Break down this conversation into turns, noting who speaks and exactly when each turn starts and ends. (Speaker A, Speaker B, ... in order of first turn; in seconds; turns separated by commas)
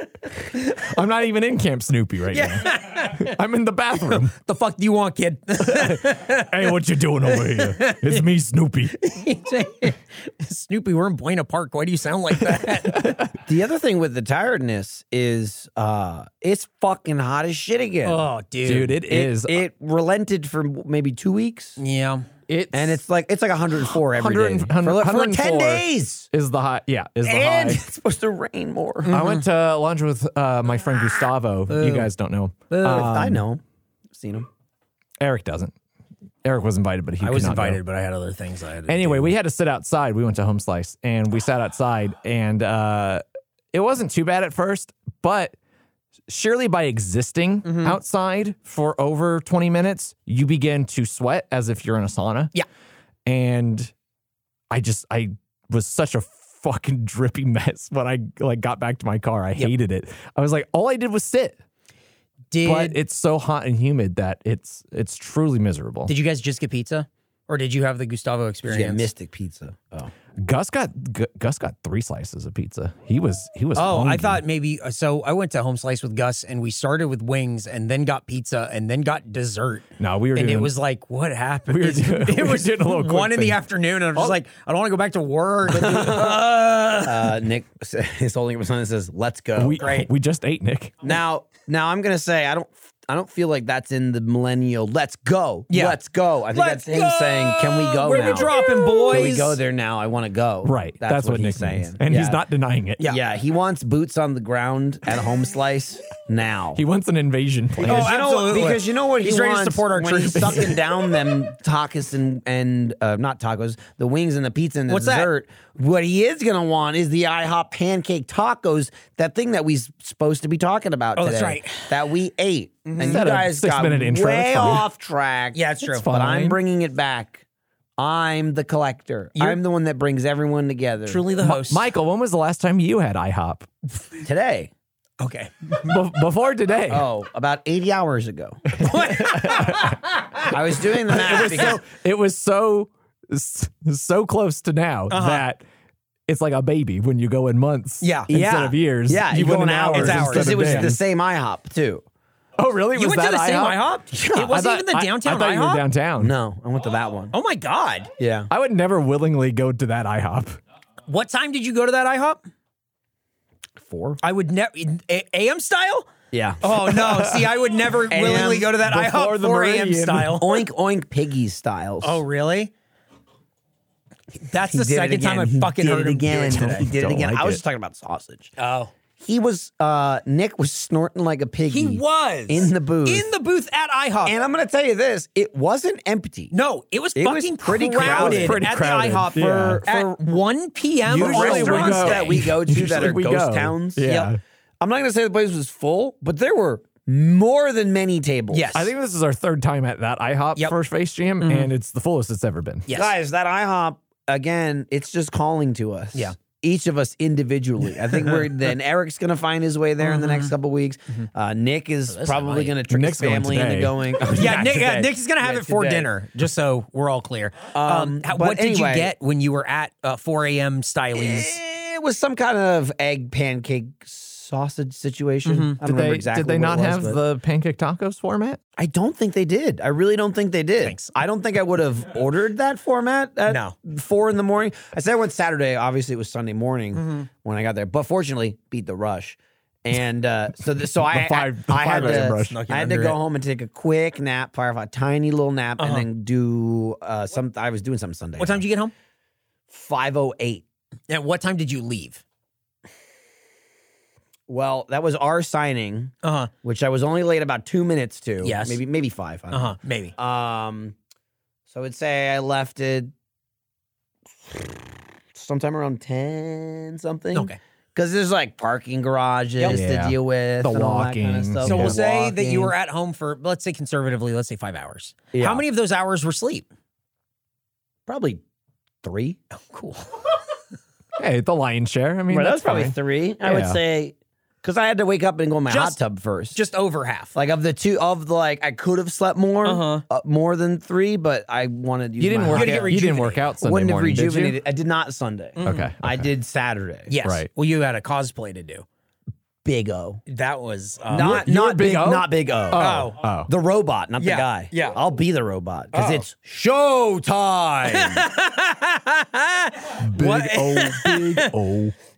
Speaker A: 0.8-4.3, Speaker B: 2.3-3.3, Speaker B: 4.1-8.3, Speaker A: 5.6-9.0, Speaker B: 9.0-13.2, Speaker A: 12.5-13.3, Speaker C: 13.4-18.3, Speaker B: 18.1-19.0, Speaker A: 18.6-19.6, Speaker C: 19.0-21.8, Speaker B: 21.8-22.3, Speaker A: 22.5-23.0, Speaker C: 22.7-26.3, Speaker A: 24.0-27.8, Speaker C: 27.2-29.2, Speaker B: 29.1-29.5, Speaker A: 29.1-33.4, Speaker B: 31.7-32.1, Speaker B: 32.7-33.2, Speaker C: 32.8-33.6, Speaker C: 34.1-34.5, Speaker A: 35.2-35.7, Speaker A: 36.5-37.8, Speaker B: 37.2-39.3, Speaker A: 38.9-45.5, Speaker A: 46.3-52.5, Speaker B: 47.6-48.0, Speaker A: 53.3-53.9, Speaker A: 54.7-61.6, Speaker B: 62.5-63.0, Speaker A: 62.6-66.1, Speaker B: 66.1-69.1, Speaker C: 68.7-70.1, Speaker A: 70.4-74.4, Speaker B: 73.8-87.3, Speaker A: 80.0-80.7, Speaker A: 81.7-83.6, Speaker C: 85.7-86.4, Speaker C: 87.0-89.8, Speaker A: 89.6-91.0, Speaker B: 89.8-90.1, Speaker C: 91.0-102.4, Speaker B: 95.7-96.0, Speaker B: 96.5-99.6, Speaker A: 99.1-99.4, Speaker A: 100.6-103.0, Speaker C: 103.0-106.8, Speaker A: 106.8-108.2, Speaker B: 107.8-110.8, Speaker C: 107.8-127.4, Speaker A: 110.4-110.7, Speaker B: 114.9-115.3, Speaker B: 121.2-121.9, Speaker B: 122.9-123.2, Speaker A: 123.0-124.9, Speaker B: 125.5-126.1, Speaker A: 125.9-126.6, Speaker C: 128.0-131.2, Speaker B: 131.1-131.9, Speaker A: 131.4-133.7, Speaker C: 134.2-134.7, Speaker B: 135.2-135.9, Speaker A: 135.8-137.1, Speaker C: 136.9-138.6, Speaker A: 138.7-140.0, Speaker B: 138.8-140.5, Speaker C: 140.5-141.8, Speaker A: 141.1-145.6, Speaker B: 141.1-141.6, Speaker B: 145.1-145.5, Speaker A: 146.3-151.0, Speaker B: 148.0-148.5, Speaker C: 148.3-152.0, Speaker B: 149.9-150.9, Speaker A: 152.6-153.9, Speaker B: 152.9-155.8, Speaker C: 154.1-154.5, Speaker A: 154.4-156.3, Speaker C: 156.2-157.3, Speaker B: 157.3-158.1, Speaker C: 158.2-158.5, Speaker A: 158.5-160.6, Speaker B: 161.1-162.4, Speaker C: 163.8-164.2, Speaker B: 164.2-166.1, Speaker C: 166.3-166.7, Speaker B: 166.6-170.7, Speaker A: 166.9-167.5, Speaker C: 168.1-168.8, Speaker A: 168.7-170.4, Speaker C: 170.4-172.2, Speaker B: 172.0-172.7, Speaker B: 174.5-176.8, Speaker C: 174.6-178.5, Speaker A: 176.5-177.6, Speaker B: 178.6-178.9, Speaker C: 179.2-183.3, Speaker B: 181.7-184.3, Speaker C: 184.2-186.5, Speaker B: 186.5-192.5, Speaker C: 187.2-188.8, Speaker A: 188.0-189.8, Speaker C: 189.3-190.3, Speaker C: 191.1-194.1, Speaker A: 191.1-194.4, Speaker B: 194.1-194.3, Speaker C: 194.8-198.7, Speaker B: 198.5-198.9, Speaker A: 198.7-202.9, Speaker B: 201.4-201.7, Speaker B: 202.9-203.2, Speaker C: 202.9-216.1, Speaker B: 210.0-210.5, Speaker B: 212.1-212.8, Speaker A: 212.9-214.0, Speaker B: 214.3-221.6, Speaker C: 217.7-219.1, Speaker C: 221.2-227.2, Speaker B: 225.5-225.8, Speaker A: 225.8-228.6, Speaker C: 228.8-248.7, Speaker B: 230.8-231.1, Speaker B: 233.5-233.7, Speaker B: 236.9-237.3, Speaker A: 241.0-242.6, Speaker B: 242.0-243.2, Speaker B: 245.8-246.1, Speaker B: 248.4-248.9, Speaker C: 249.7-250.6, Speaker B: 251.1-252.2, Speaker C: 254.5-256.1, Speaker B: 256.2-256.5, Speaker C: 256.6-261.0, Speaker B: 258.4-258.8, Speaker B: 259.5-260.1, Speaker C: 261.7-263.1, Speaker C: 264.5-264.8, Speaker C: 265.3-272.7, Speaker A: 269.7-272.0, Speaker B: 271.6-276.7, Speaker C: 275.3-275.6, Speaker C: 278.1-278.4, Speaker C: 279.0-279.4, Speaker B: 279.5-280.2, Speaker A: 281.2-283.8, Speaker C: 282.3-286.6, Speaker B: 285.7-286.0, Speaker B: 286.5-287.3, Speaker C: 287.3-293.0, Speaker B: 289.6-290.0, Speaker A: 292.2-294.6, Speaker B: 292.5-293.5, Speaker C: 293.6-297.1, Speaker B: 295.6-295.9, Speaker A: 295.6-296.3, Speaker B: 297.1-298.9, Speaker A: 297.2-297.5, Speaker C: 299.6-300.2, Speaker B: 300.3-301.4, Speaker C: 301.1-308.3, Speaker A: 301.1-303.5, Speaker B: 302.7-303.2, Speaker B: 304.2-305.0, Speaker B: 305.9-306.3, Speaker B: 307.9-311.5, Speaker A: 310.0-311.9